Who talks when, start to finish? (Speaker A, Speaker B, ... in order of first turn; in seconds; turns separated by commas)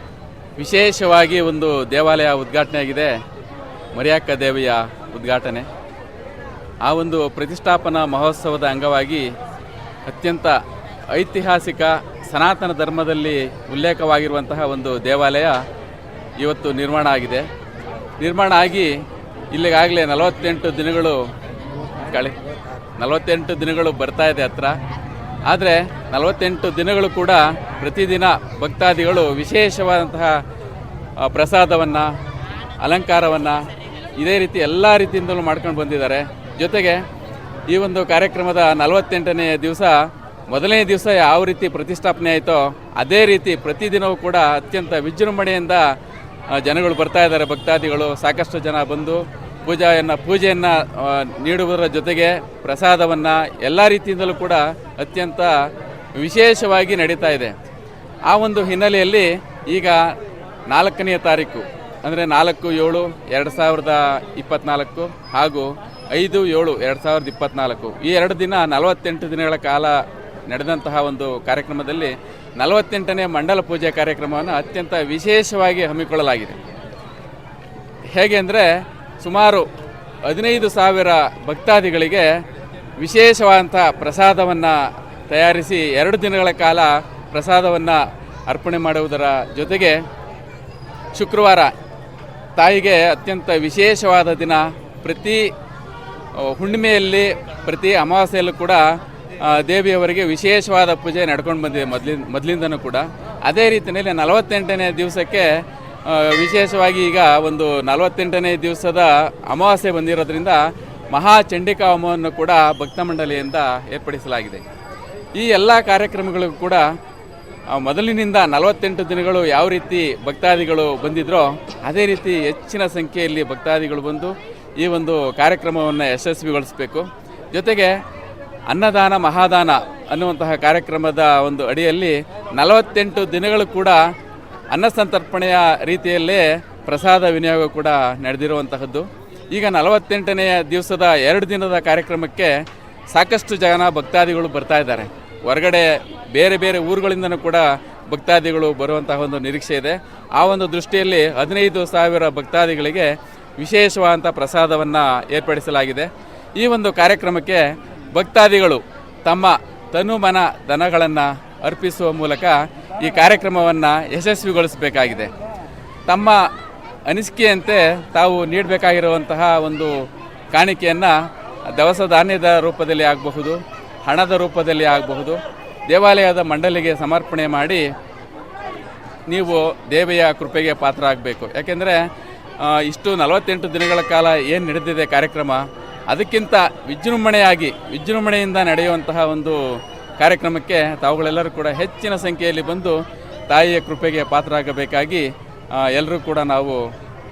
Speaker A: 0.6-3.1, Speaker A: 3.9-5.7, Speaker A: 6.8-9.3, Speaker A: 10.1-15.6, Speaker A: 16.4-17.5, Speaker A: 18.2-19.0, Speaker A: 19.5-21.2, Speaker A: 22.0-24.8, Speaker A: 25.4-30.4, Speaker A: 31.2-32.1, Speaker A: 32.8-37.0, Speaker A: 37.7-45.9, Speaker A: 46.5-57.5, Speaker A: 58.3-60.1, Speaker A: 60.7-76.6, Speaker A: 78.1-79.7, Speaker A: 80.2-82.4, Speaker A: 83.0-90.0, Speaker A: 91.1-91.7, Speaker A: 92.6-95.5, Speaker A: 96.3-98.8, Speaker A: 99.4-114.6, Speaker A: 115.3-116.9, Speaker A: 117.7-128.0, Speaker A: 128.7-134.1, Speaker A: 134.7-142.6, Speaker A: 143.1-165.3, Speaker A: 166.1-166.5, Speaker A: 167.1-177.8, Speaker A: 179.3-182.0, Speaker A: 182.6-189.6, Speaker A: 190.2-196.8